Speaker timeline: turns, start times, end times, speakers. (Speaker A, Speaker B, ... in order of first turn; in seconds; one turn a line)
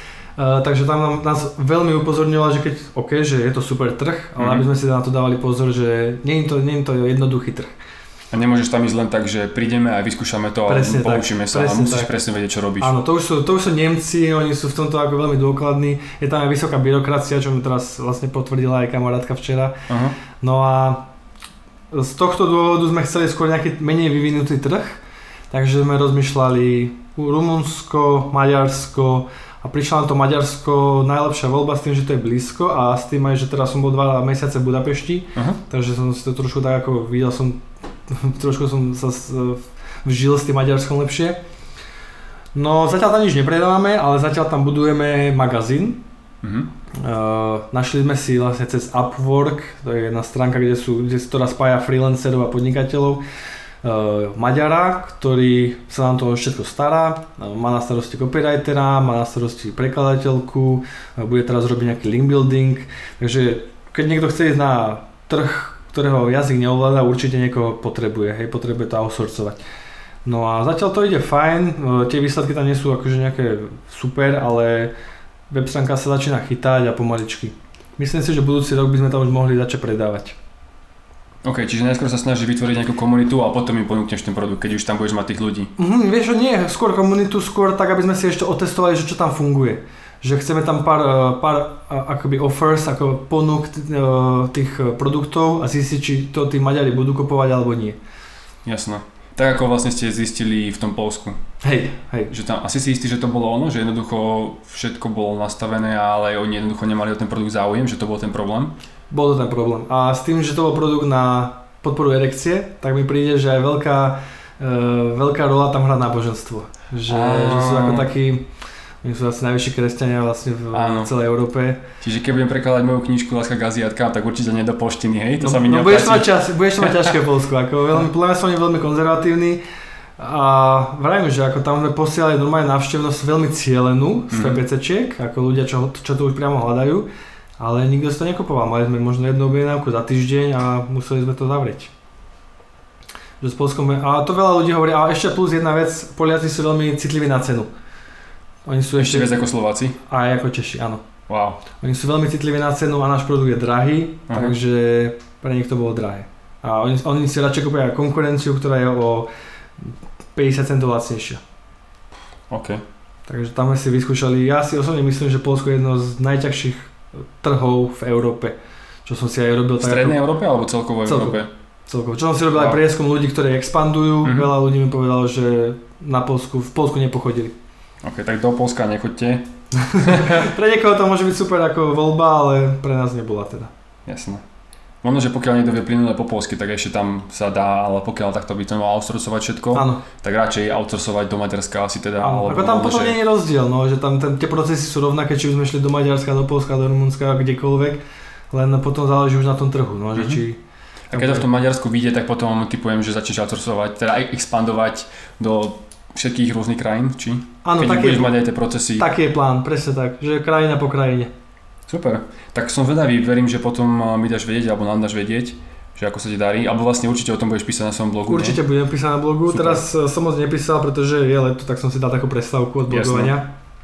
Speaker A: 0.4-7.7
Speaker B: 4.4-4.7
Speaker B: 8.3-12.9
Speaker A: 10.7-12.1
Speaker A: 12.8-19.8
Speaker B: 19.9-20.2
Speaker A: 20.4-21.1
Speaker A: 21.9-25.0
Speaker A: 25.5-41.4
Speaker A: 42.5-46.0
Speaker B: 46.4-46.7
Speaker A: 46.9-53.2
Speaker A: 53.8-69.6
Speaker A: 70.2-74.9
Speaker A: 75.5-80.4
Speaker B: 81.4-85.7
Speaker A: 85.8-98.0
Speaker B: 98.6-101.4
Speaker A: 101.6-102.3
Speaker B: 102.3-108.7
Speaker A: 109.1-118.5
Speaker B: 117.1-118.1
Speaker A: 119.0-121.8
Speaker B: 120.7-121.1
Speaker B: 122.0-127.2
Speaker A: 125.4-129.6
Speaker A: 130.2-137.1
Speaker B: 134.3-134.6
Speaker A: 137.6-141.9
Speaker A: 143.4-147.7
Speaker A: 148.7-149.4
Speaker B: 149.0-150.0
Speaker A: 150.1-151.0
Speaker B: 151.3-151.6
Speaker A: 151.8-159.3
Speaker B: 154.3-154.6
Speaker A: 160.3-161.4
Speaker B: 162.5-162.8
Speaker A: 163.3-170.2
Speaker B: 169.8-171.5
Speaker A: 171.0-177.5
Speaker B: 172.5-172.8
Speaker B: 174.2-174.5
Speaker B: 178.0-180.5
Speaker A: 179.8-183.7
Speaker B: 184.1-184.4
Speaker B: 185.0-193.2
Speaker A: 189.7-190.0
Speaker A: 192.2-198.0
Speaker A: 198.5-200.6
Speaker B: 200.1-200.4
Speaker B: 201.1-209.1
Speaker A: 201.1-201.5
Speaker A: 207.6-208.4
Speaker A: 209.0-211.3
Speaker B: 211.9-218.6
Speaker A: 218.3-223.5
Speaker B: 219.5-219.8
Speaker B: 222.9-223.3